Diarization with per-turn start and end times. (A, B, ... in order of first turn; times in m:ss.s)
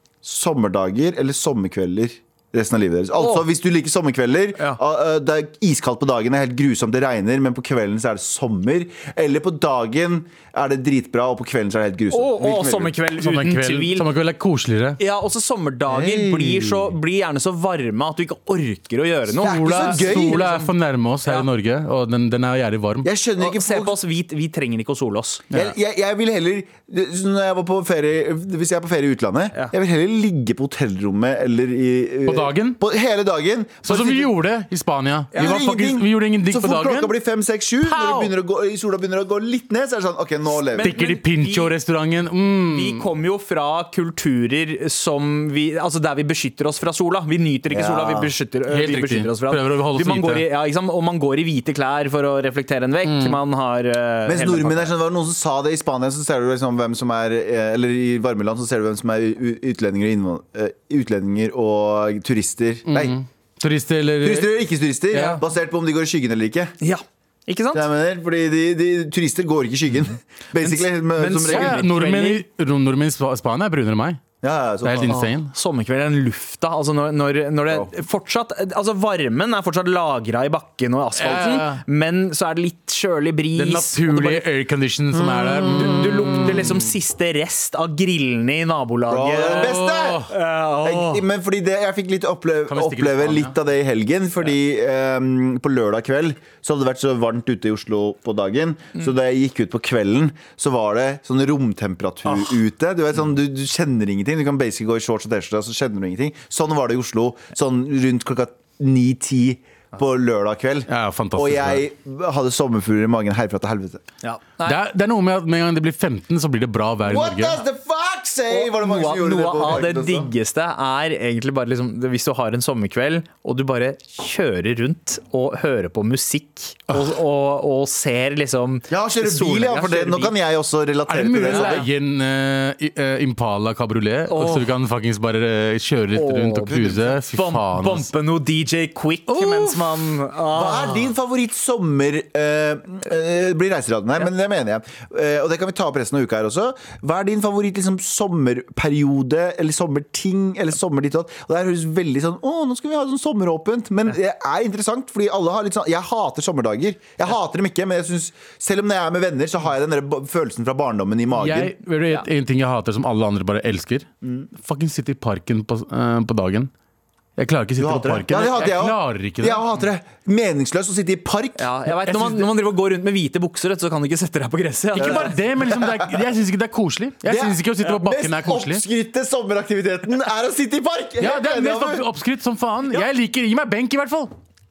0:00.2-0:12.9 A
0:03.2-0:03.5 B
0:12.1-0:14.1 B
0:13.2-0:15.0 C
0:15.0-0:20.7 B
0:15.9-0:16.9 A
0:19.4-0:23.1 C
0:19.4-0:20.4 A
0:23.0-0:24.0 A
0:23.4-0:25.4 B
0:25.5-0:34.2 A
0:32.3-0:32.8 C
0:33.8-0:37.2 C
0:33.9-0:34.2 B
0:35.3-0:40.9 A
0:37.8-0:38.3 B
0:40.5-0:41.7 B
0:40.8-0:43.1 C
0:42.7-0:54.9 B
0:47.7-0:48.3 A
0:48.7-0:50.4 C
0:53.0-0:53.4 C
0:54.3-1:03.2 A
1:02.9-1:04.5 C
1:04.2-1:06.8 A
1:05.1-1:05.4 C
1:05.1-1:05.4 B
1:06.8-1:07.9 B
1:07.7-1:11.9 A
1:10.7-1:12.4 B
1:11.2-1:14.2 C
1:14.4-1:15.2 A
1:14.8-1:15.5 C
1:15.1-1:24.5 B
1:21.2-1:21.8 C
1:23.6-1:26.8 C
1:25.2-1:26.1 A
1:25.8-1:31.2 B
1:29.1-1:30.3 A
1:29.4-1:30.3 C
1:30.8-1:54.0 A
1:32.7-1:33.5 C
1:42.3-1:42.6 C
1:50.9-1:51.9 C
1:54.2-1:54.8 B
1:54.6-1:57.6 C
1:57.0-2:00.3 A
1:58.5-2:10.3 B
2:08.9-2:11.9 A
2:11.1-2:18.1 C
2:11.5-2:11.9 B
2:14.3-2:14.7 B
2:16.2-2:21.1 B
2:16.6-2:17.2 A
2:19.3-2:20.0 C
2:20.5-2:41.8 A
2:41.4-2:44.1 C
2:44.2-2:44.5 A
2:44.6-2:46.7 C
2:47.4-2:49.6 C
2:47.8-2:51.7 A
2:51.6-2:55.4 B
2:51.9-2:52.5 C
2:55.0-2:58.8 C
2:55.0-2:56.2 A
2:57.2-3:02.0 A
3:01.2-3:04.3 C